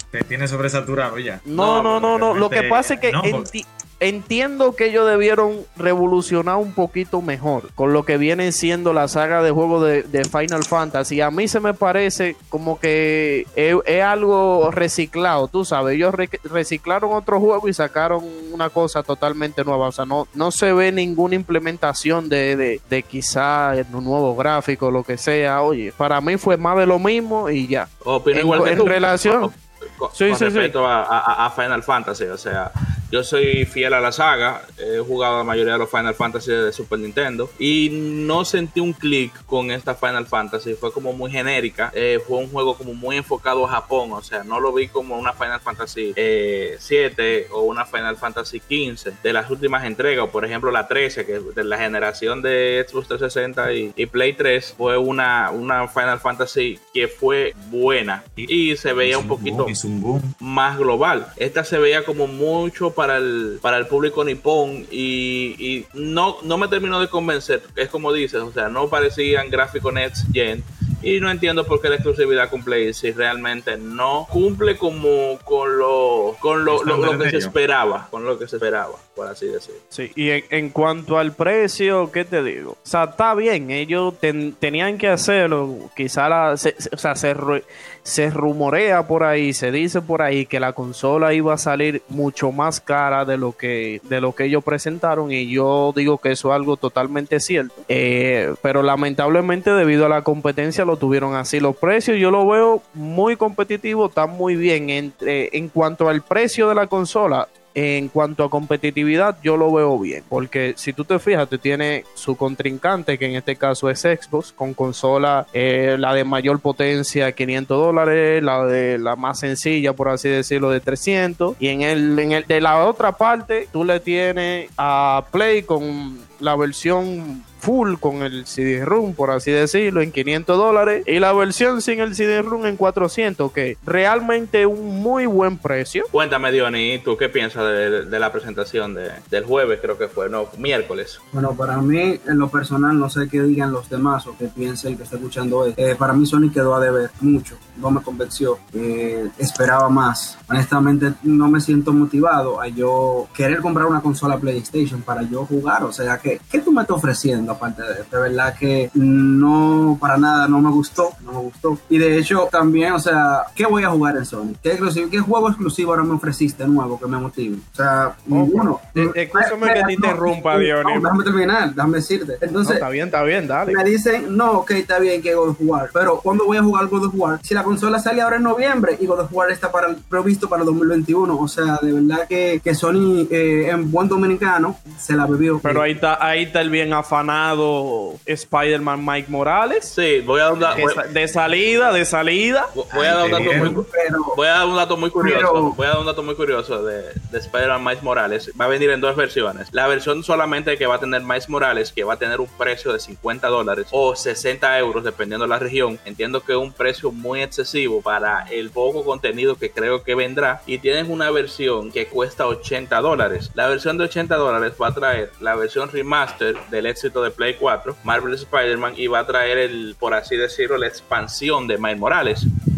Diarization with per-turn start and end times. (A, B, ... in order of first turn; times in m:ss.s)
0:00.1-0:03.5 A
0:01.5-0:29.5 B
0:28.0-0:59.7 C
0:30.2-0:30.7 B
0:58.4-1:00.4 A
1:00.4-1:19.8 C
1:16.7-1:17.6 A
1:19.9-2:16.1 B
2:16.1-2:21.2 C
2:21.3-2:52.8 D
2:48.3-2:51.1 B
2:52.6-2:53.8 B
2:53.7-3:05.9 D
3:05.6-3:09.9 B
3:09.9-3:11.0 C
3:10.6-3:10.9 A
3:10.8-3:12.7 B
3:12.7-3:42.5 C
3:12.9-3:13.8 A
3:13.0-3:14.4 D
3:15.2-3:15.8 D